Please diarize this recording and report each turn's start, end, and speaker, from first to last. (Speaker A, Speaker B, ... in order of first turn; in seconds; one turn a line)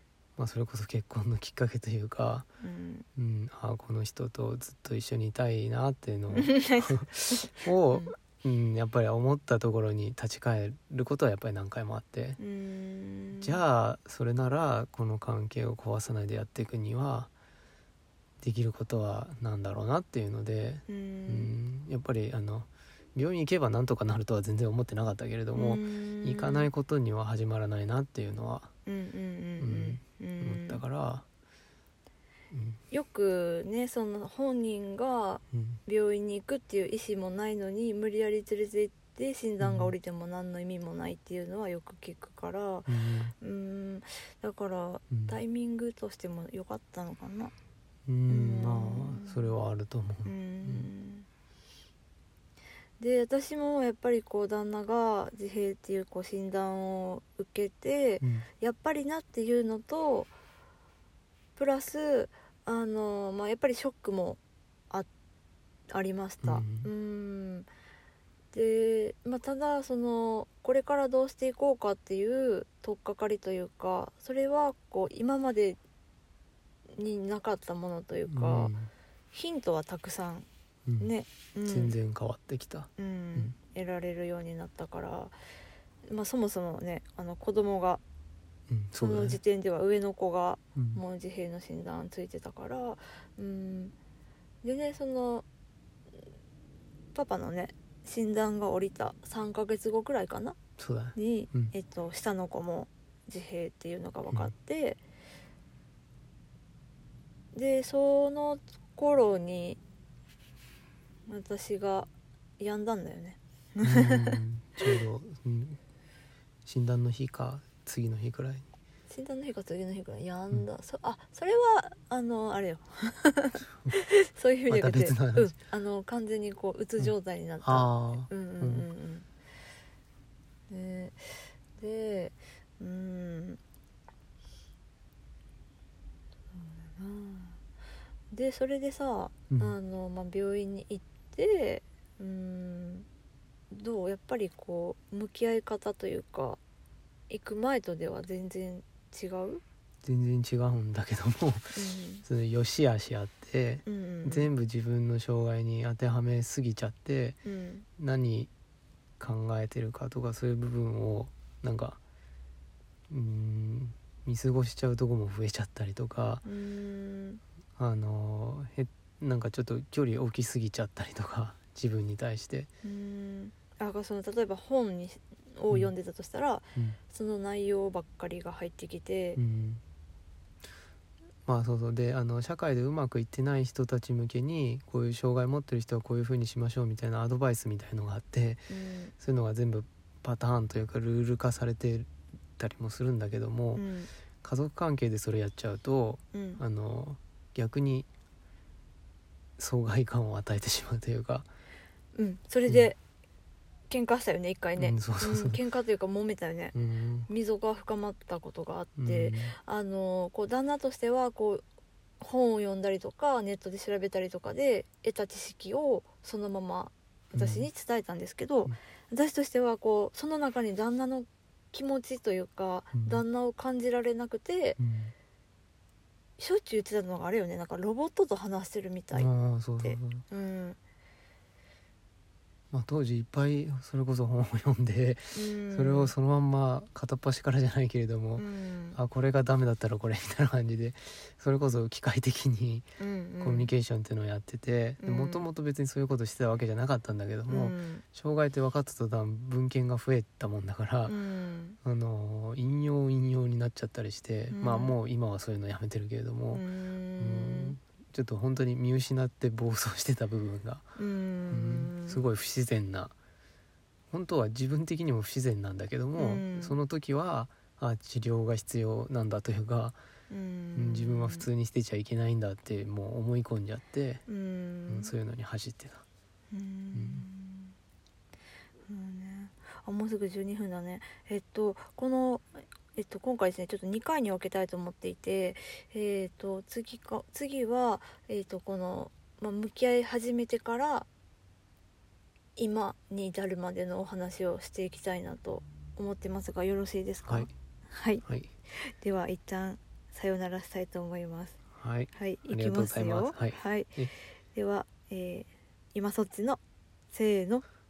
Speaker A: 0.4-2.5
Speaker B: 2.6-3.0
Speaker A: 3.1-12.4
Speaker B: 6.3-8.1
Speaker B: 12.4-13.6
Speaker A: 13.3-17.3
Speaker A: 18.4-28.7
Speaker B: 20.9-21.5
Speaker B: 25.5-26.7
Speaker B: 28.9-30.8
Speaker A: 29.6-31.2
Speaker A: 32.5-32.8
Speaker B: 32.9-47.5
Speaker A: 35.5-35.8
Speaker A: 39.6-39.9
Speaker A: 42.9-43.3
Speaker A: 45.1-45.4
Speaker A: 48.0-50.9
Speaker B: 48.3-49.5
Speaker B: 50.2-51.3
Speaker B: 53.0-60.3
Speaker A: 58.2-58.5
Speaker B: 61.5-64.4
Speaker B: 65.9-67.7
Speaker A: 66.4-66.9
Speaker B: 68.5-75.8
Speaker B: 76.9-78.7
Speaker A: 78.2-78.9
Speaker B: 79.3-80.5
Speaker A: 80.8-81.1
Speaker B: 81.0-82.0
Speaker A: 81.6-83.5
Speaker B: 83.0-85.3
Speaker B: 86.0-88.0
Speaker A: 88.7-89.4
Speaker B: 89.0-93.9
Speaker A: 90.8-91.0
Speaker B: 94.6-95.4
Speaker B: 97.1-100.6
Speaker A: 100.8-101.7
Speaker B: 101.1-105.0
Speaker B: 107.5-109.8
Speaker B: 111.3-112.1
Speaker B: 112.6-115.0
Speaker A: 113.8-115.8
Speaker A: 116.6-118.6
Speaker B: 119.1-129.2
Speaker A: 124.7-125.5
Speaker A: 127.0-128.9
Speaker B: 130.7-133.6
Speaker B: 136.5-137.6
Speaker B: 138.3-143.1
Speaker B: 143.7-146.6
Speaker B: 147.3-149.6
Speaker A: 150.0-157.4
Speaker B: 151.7-152.2
Speaker B: 153.8-154.5
Speaker B: 157.4-157.8
Speaker A: 158.0-158.5
Speaker A: 159.2-162.0
Speaker A: 163.1-166.4
Speaker B: 166.4-167.4
Speaker A: 167.8-172.7
Speaker B: 172.8-179.4
Speaker A: 179.3-179.8
Speaker A: 181.4-193.8
Speaker B: 188.7-189.1
Speaker B: 193.7-194.1
Speaker A: 194.4-198.1
Speaker B: 196.3-196.6
Speaker A: 199.6-201.5
Speaker B: 202.1-203.0
Speaker B: 203.9-206.8
Speaker A: 204.8-205.6
Speaker A: 206.7-207.3
Speaker B: 207.3-211.6
Speaker A: 208.9-209.6
Speaker B: 212.2-224.8
Speaker A: 217.3-217.7
Speaker A: 222.9-223.2
Speaker A: 224.8-225.1
Speaker B: 226.4-230.8
Speaker A: 229.1-230.2
Speaker A: 232.7-242.8
Speaker B: 235.3-236.1
Speaker B: 238.4-239.0
Speaker B: 243.0-243.8
Speaker A: 243.4-251.2
Speaker B: 245.0-245.4
Speaker B: 247.5-248.0
Speaker B: 251.1-251.8
Speaker A: 251.8-256.6
Speaker B: 254.5-254.9
Speaker B: 256.5-257.8
Speaker A: 257.2-260.9
Speaker B: 260.9-262.2
Speaker A: 261.5-263.1
Speaker A: 264.1-270.0
Speaker B: 266.1-266.8
Speaker B: 270.3-271.5
Speaker A: 270.8-274.2
Speaker B: 274.3-275.1
Speaker A: 274.9-276.0
Speaker B: 276.5-277.7
Speaker A: 276.9-277.2
Speaker B: 278.9-291.1
Speaker B: 292.6-301.6
Speaker A: 297.2-297.5
Speaker A: 301.8-304.1
Speaker B: 302.1-306.6
Speaker B: 307.1-307.6